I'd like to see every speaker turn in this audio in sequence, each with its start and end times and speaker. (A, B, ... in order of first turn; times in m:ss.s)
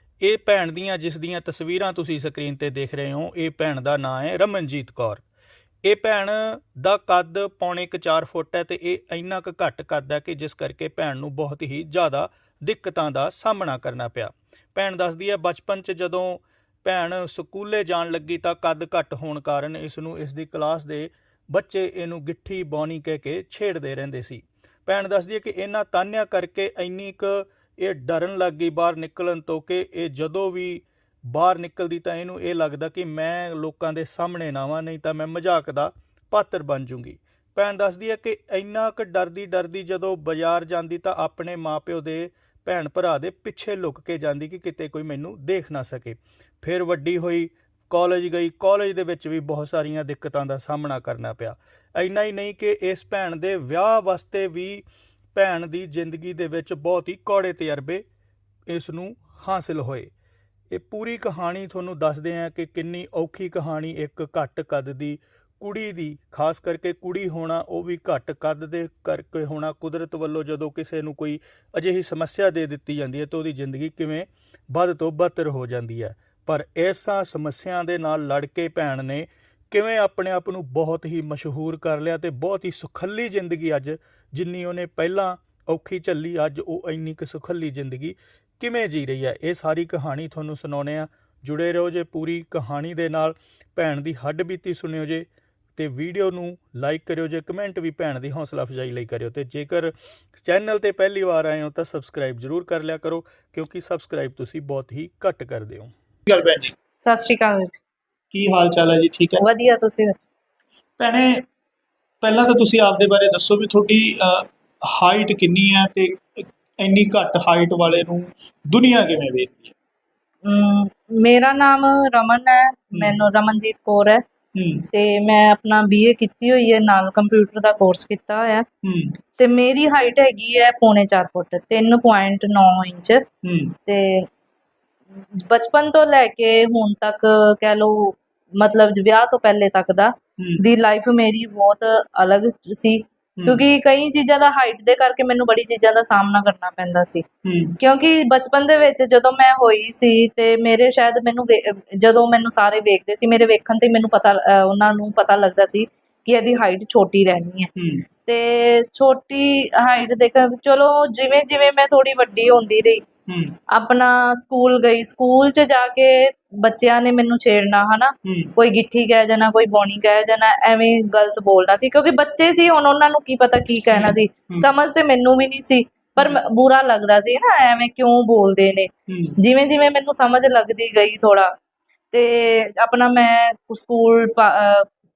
0:00.2-0:05.2 A
0:05.8-0:58.0 A
0:58.7-1:00.1 A
1:00.7-1:45.9 A
1:46.3-1:46.7 B
1:47.0-1:47.8 C
1:48.3-1:49.4 B
1:49.4-1:50.2 C
1:51.0-1:51.5 B
1:52.2-1:59.8 B
2:00.4-2:04.2 C
2:02.9-2:03.2 B
2:04.6-2:04.9 B
2:04.9-2:08.7 C
2:08.8-2:09.2 B
2:09.4-2:13.2 C
2:13.4-2:13.8 B
2:13.9-2:14.3 C
2:15.4-2:27.2 C
2:23.4-2:23.6 B
2:27.4-2:27.8 B
2:27.8-2:37.7 C
2:37.8-2:38.1 B
2:38.3-2:43.0 C
2:43.3-2:43.6 B
2:43.7-3:01.5 C
2:48.2-2:48.5 B
2:53.9-2:54.7 B
2:59.1-2:59.4 B
3:02.1-3:04.9 C